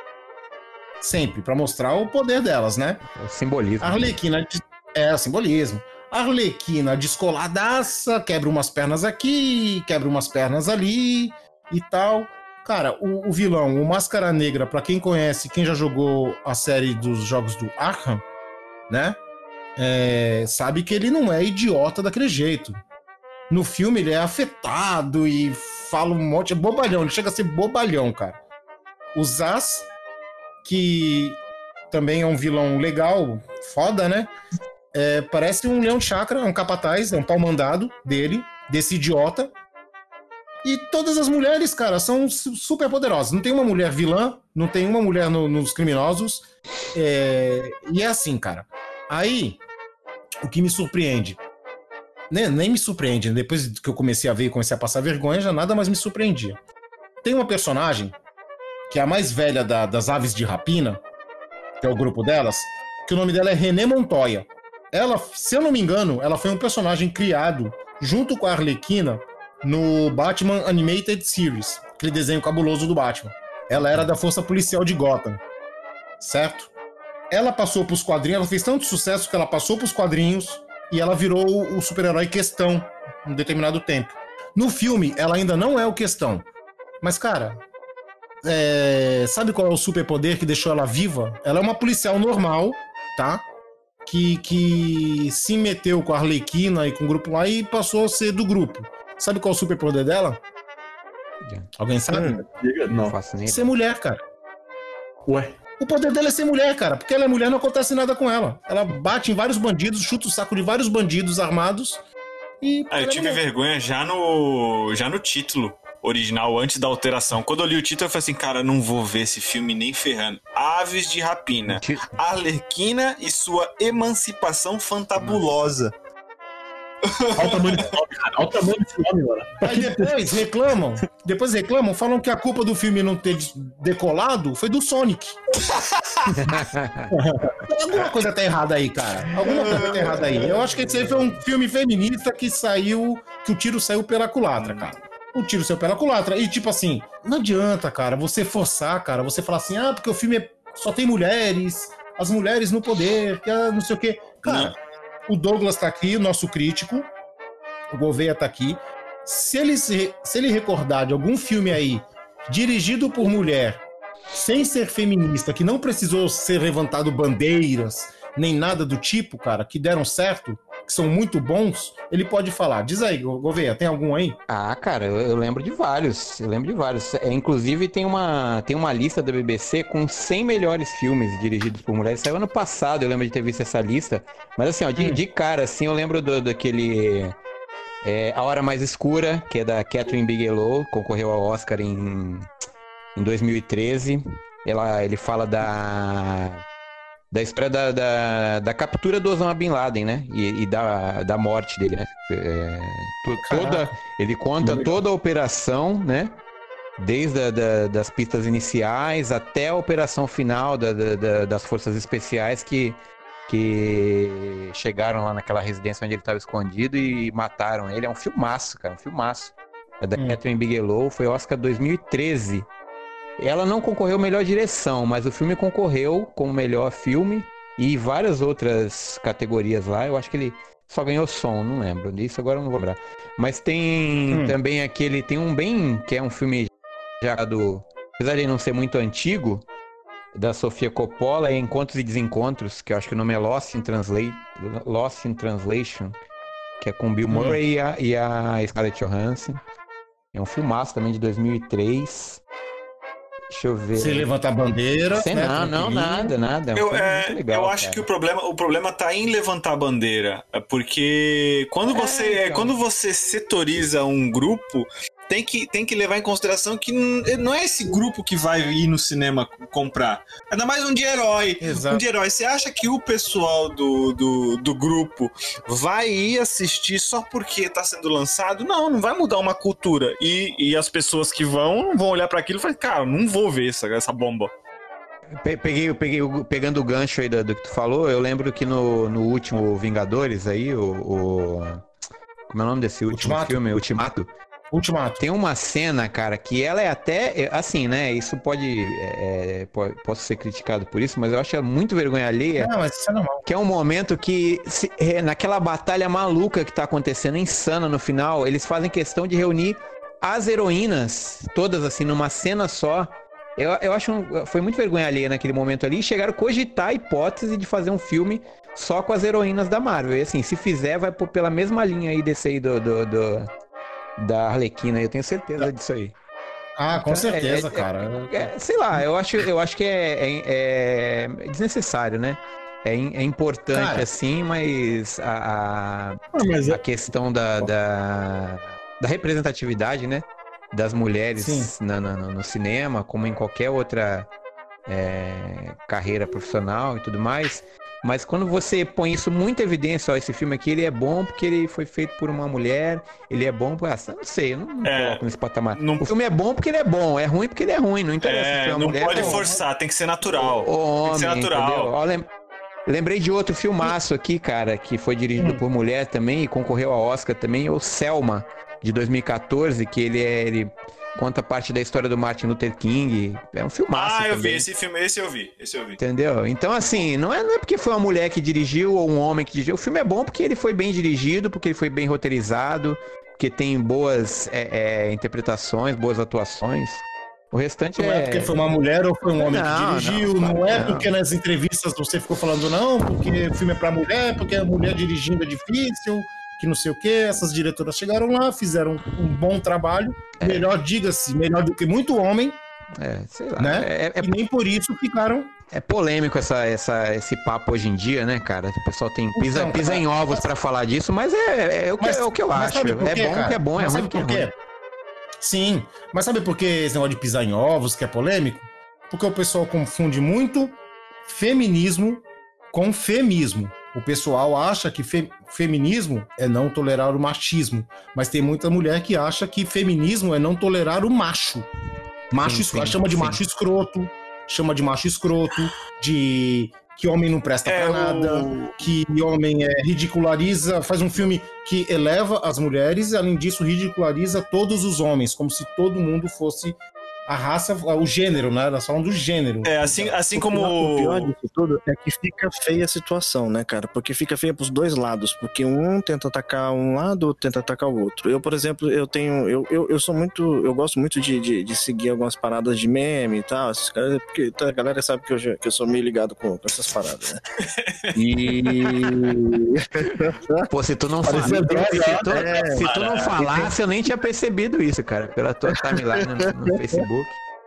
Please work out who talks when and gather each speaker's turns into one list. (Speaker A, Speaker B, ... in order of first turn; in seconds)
Speaker A: 1.0-3.0, 3.8-18.2, 18.9-19.2, 19.8-22.8, 23.5-28.4, 29.1-29.9, 30.6-31.4, 31.9-34.3, 34.9-39.5, 40.6-49.6, 50.4-51.4, 52.3-56.6, 57.2-58.1, 58.9-61.0, 61.8-75.4, 76.2-76.7, 77.3-86.5, 87.0-87.6, 88.4-93.4, 94.0-100.4, 101.8-102.3, 103.5-104.2, 105.8-112.0, 112.6-113.4, 129.6-135.4, 137.1-154.8, 155.3-157.1, 157.9-174.4, 203.5-203.9, 234.3-234.6, 247.3-247.6, 253.9-256.3, 271.6-272.0, 293.1-294.1, 294.7-295.2, 302.6-303.4, 326.8-328.5, 333.7-334.1, 341.4-341.7, 359.1-359.6, 365.4-365.6, 388.0-402.6, 403.6-405.5, 409.3-410.4, 412.0-414.5, 415.4-431.7, 432.3-449.9, 471.8-472.2
Speaker B: 3.1-4.2, 101.4-101.7, 103.0-103.7, 121.7-122.2, 136.3-137.1, 174.5-187.3, 188.0-192.5, 193.2-196.6, 197.3-206.3, 207.0-222.7, 223.4-236.7, 237.2-239.6, 240.3-246.1, 246.8-249.6, 250.3-252.4, 253.5-254.3, 255.1-258.0, 261.9-262.7, 285.4-291.9, 292.5-294.3, 295.2-302.7, 303.4-323.5, 324.2-326.1, 326.9-344.3, 344.9-359.5, 360.4-362.3, 362.9-374.6, 376.0-388.6, 389.4-391.1, 400.4-400.7, 403.0-404.3, 405.7-414.5, 432.4-433.4, 470.7-477.4
Speaker C: 102.1-102.4, 449.9-467.4, 468.1-470.6, 472.3-472.8, 473.4-473.7
Speaker D: 102.1-103.2, 105.2-105.5, 127.3-130.1, 204.6-205.0, 336.3-336.8, 471.2-472.3
Speaker E: 112.9-125.9, 127.1-127.9, 139.4-140.3, 144.6-144.9, 154.4-154.7, 256.7-284.5, 354.8-356.1, 358.2-361.9, 373.9-376.0, 437.6-438.7, 449.6-451.3, 467.8-468.1, 468.7-469.1, 472.8-473.3